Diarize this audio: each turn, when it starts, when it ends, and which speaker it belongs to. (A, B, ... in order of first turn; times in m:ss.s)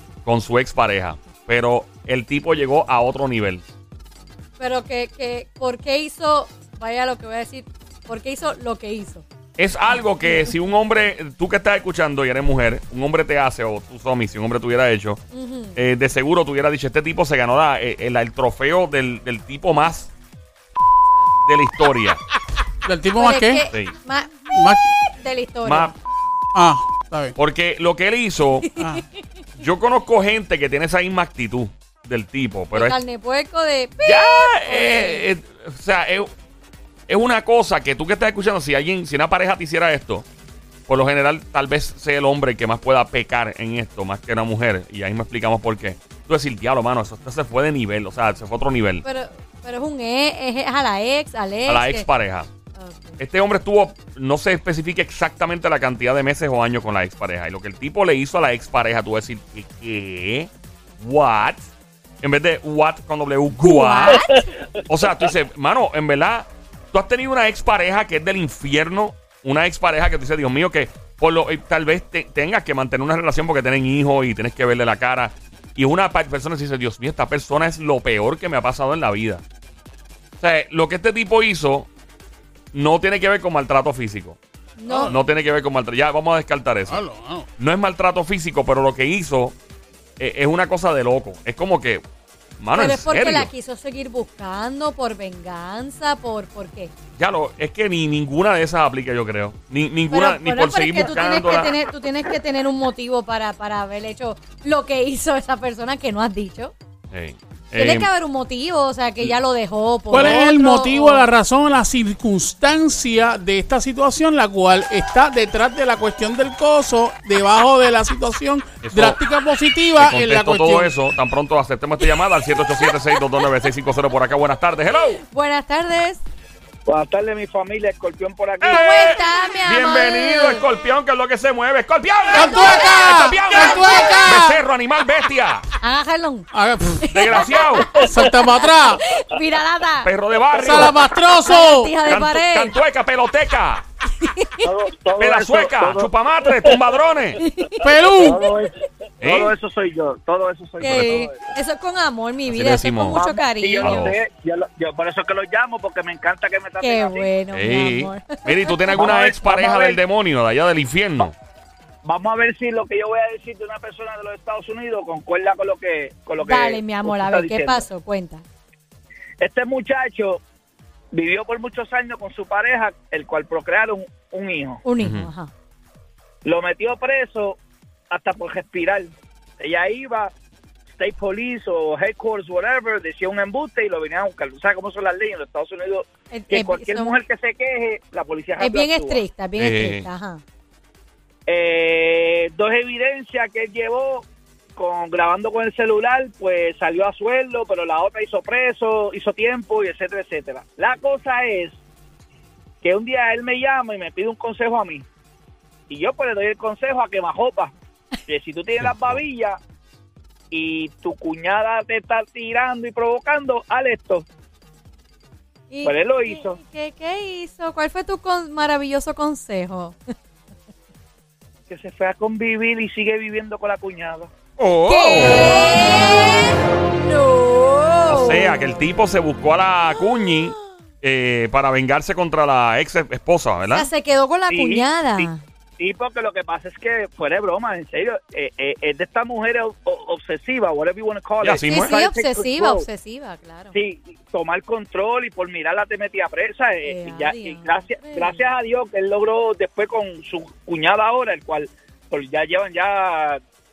0:00.2-0:03.6 A
0:04.6-0:09.2 B
0:09.6-0:15.2 A
0:10.2-0:10.5 B
0:15.3-0:15.8 B
0:15.8-0:20.1 A
0:21.4-0:22.2 A
0:22.8-0:23.6 C
0:23.2-0:24.4 B
0:24.5-0:24.9 C
0:25.1-0:25.9 B
0:25.6-0:25.9 A
0:26.5-0:27.4 C
0:27.4-0:28.7 A
0:28.8-0:29.0 B
0:28.8-0:29.0 C
0:29.6-0:33.0 A
0:32.7-0:35.2 B
0:34.0-0:36.3 A
0:37.1-0:40.2 A
0:40.9-0:49.0 A
0:49.0-0:52.1 B
0:51.7-0:52.5 A
0:52.8-0:53.2 B
0:53.2-1:01.7 A
1:02.2-1:04.2 A
1:03.6-1:04.5 B
1:04.8-1:19.4 A
1:20.4-1:21.9 A
1:22.7-1:24.4 A
1:24.8-1:25.2 B
1:24.9-1:25.2 C
1:25.1-1:27.0 A
1:26.9-1:27.5 C
1:27.6-1:29.6 A
1:30.2-1:32.0 A
1:32.6-1:33.5 A
1:32.7-1:36.9 B
1:37.2-1:41.7 A
1:40.1-1:46.8 B
1:47.1-1:48.1 A
1:47.8-1:51.3 B
1:50.1-2:00.9 C
1:58.8-1:59.2 A
2:00.0-2:05.2 A
2:05.2-2:06.2 B
2:06.8-2:08.8 D
2:08.6-2:15.7 A
2:08.7-2:10.6 B
2:12.3-2:14.6 C
2:12.4-2:14.4 B
2:15.8-2:16.5 B
2:16.5-2:17.1 C
2:17.0-2:20.1 B
2:17.1-2:18.0 A
2:18.0-2:19.0 C
2:20.0-2:21.0 A
2:20.6-2:22.0 C
2:21.4-2:22.8 B
2:22.1-2:23.8 A
2:24.2-2:24.7 B
2:24.6-2:26.8 D
2:25.2-2:27.4 A
2:27.4-2:28.4 B
2:27.8-2:28.5 C
2:28.2-2:31.5 D
2:29.2-2:29.5 A
2:30.8-2:34.1 B
2:32.5-2:33.2 A
2:33.1-2:37.3 D
2:33.8-2:34.2 A
2:36.8-2:39.0 B
2:37.5-2:41.4 A
2:39.0-2:40.0 D
2:42.0-2:47.8 D
2:46.4-2:48.4 B
2:49.4-2:50.4 D
2:51.1-2:54.8 D
2:54.8-2:55.5 B
2:55.0-2:55.3 A
2:56.4-2:57.6 D
2:58.1-3:00.3 D
3:01.0-3:09.2 D
3:06.3-3:07.1 B
3:08.6-3:10.4 B
3:09.6-3:10.1 A
3:11.5-3:21.8 D
3:22.8-3:25.1 D
3:25.9-3:27.7 D
3:28.3-3:29.6 D
3:28.8-3:29.2 A
3:30.5-3:34.2 D
3:35.7-3:40.0 B
3:35.8-3:36.6 D
3:41.7-3:44.3 D
3:44.6-3:45.7 A
3:44.9-3:48.6 B
3:48.1-3:53.9 A
3:53.7-3:55.4 B
3:54.5-4:02.9 D
4:01.4-4:01.9 A
4:01.7-4:03.8 B
4:03.7-4:13.4 D
4:06.8-4:08.4 B